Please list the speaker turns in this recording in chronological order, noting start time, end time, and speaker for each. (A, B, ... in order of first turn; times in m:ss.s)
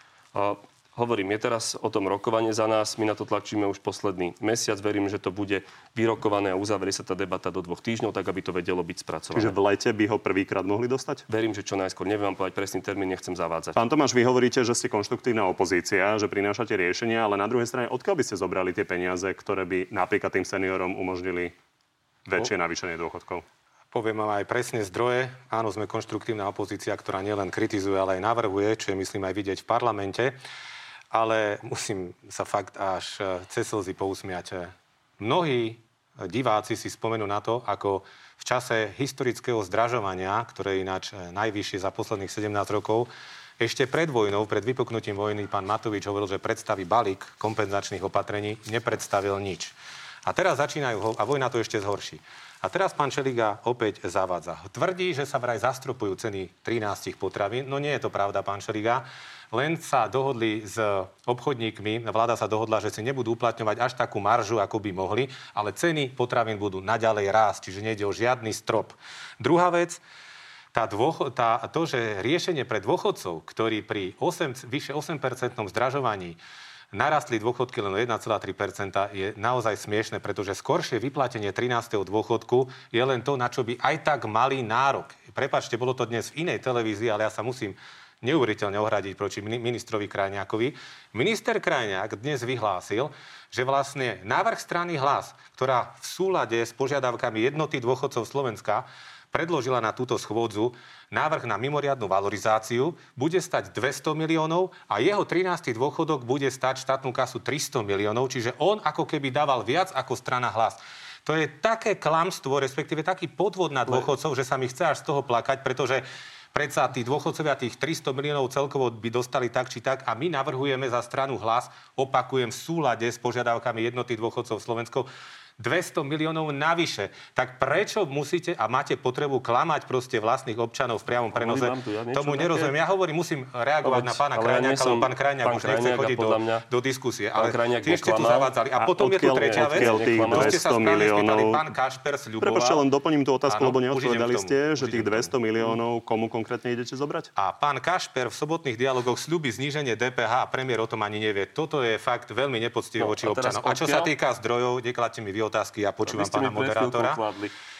0:00.3-0:09.5 A
0:09.3-0:11.2 B
0:11.3-0:13.8 A
0:13.8-0:21.5 B
0:22.2-0:23.4 B
0:23.9-0:30.4 C
0:31.1-1:10.0 C
1:10.7-1:16.4 C
1:16.9-2:22.8 C
2:11.3-2:12.7 A
2:13.8-2:16.6 A
2:17.3-2:18.5 A
2:18.8-2:21.6 B
2:19.2-2:20.6 A
2:22.4-2:27.3 B
2:23.5-2:25.3 C
2:27.4-2:37.2 C
2:33.0-2:34.1 A
2:36.0-2:37.5 A